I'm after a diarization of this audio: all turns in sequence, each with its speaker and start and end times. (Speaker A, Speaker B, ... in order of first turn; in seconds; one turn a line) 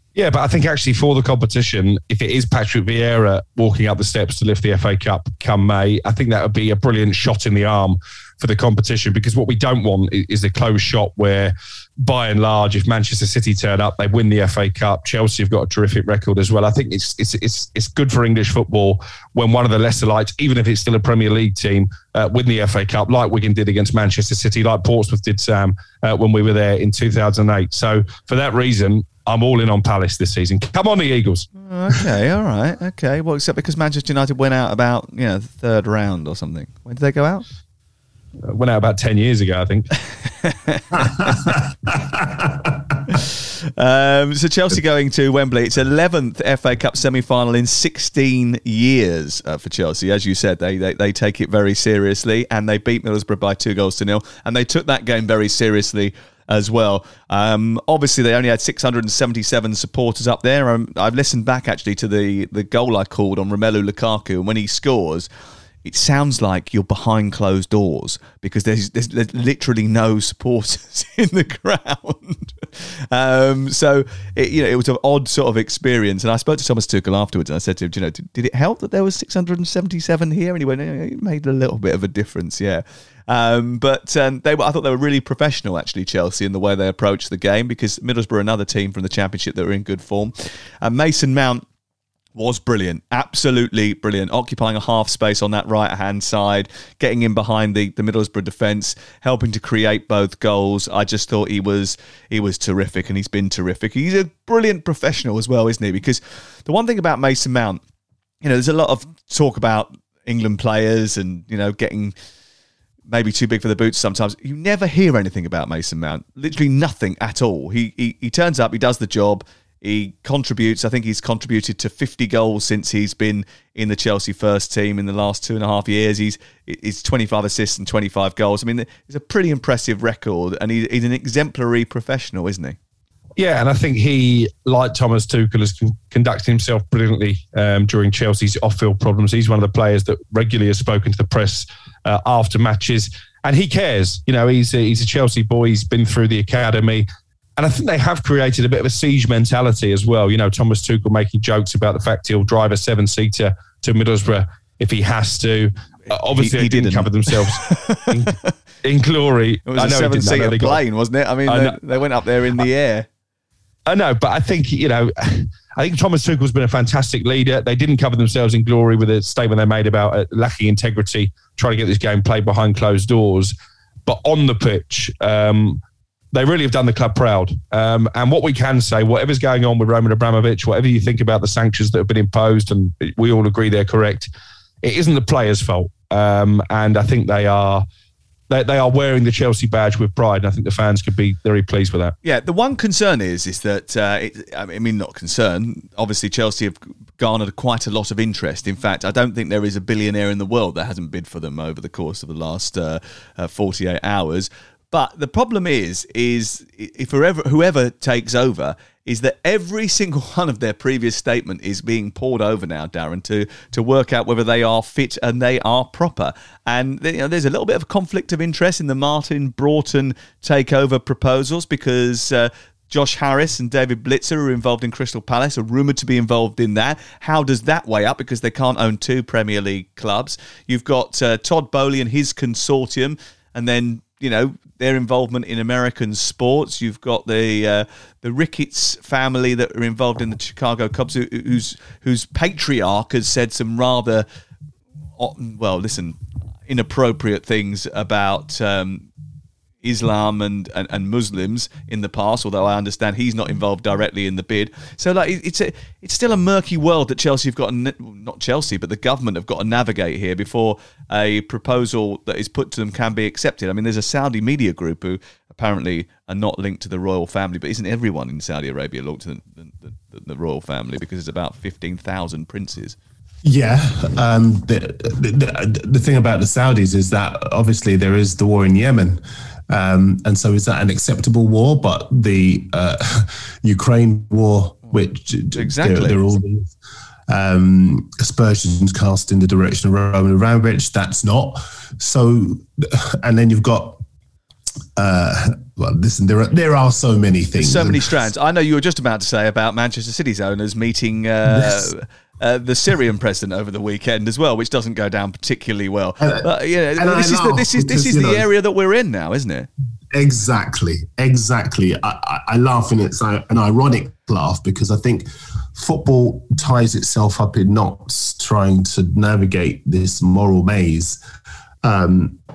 Speaker A: 0.1-31.5
Speaker B: 31.6-37.4
Speaker A: 38.5-39.9
Speaker B: 40.4-41.4
Speaker A: 41.3-41.5
Speaker B: 43.1-65.3
Speaker B: 65.8-91.6
Speaker B: 92.3-107.8
Speaker B: 108.4-112.1
Speaker B: 113.1-132.8
Speaker A: 133.4-160.8
Speaker B: 156.1-158.5
Speaker B: 159.7-163.1
Speaker A: 161.5-161.8
Speaker A: 163.9-173.5
Speaker A: 174.1-175.8
Speaker A: 176.3-184.3
Speaker A: 184.8-187.8
Speaker A: 188.5-192.1
Speaker B: 192.2-244.2
Speaker B: 245.2-246.2
Speaker B: 246.7-249.1
Speaker B: 249.8-272.9
Speaker C: 273.4-286.7
Speaker B: 285.5-286.2
Speaker C: 287.3-294.0
Speaker C: 294.9-298.1
Speaker B: 297.6-309.7
Speaker C: 301.4-301.9
Speaker C: 306.2-306.4
Speaker C: 307.0-308.5
Speaker C: 310.1-321.2
Speaker C: 321.8-322.4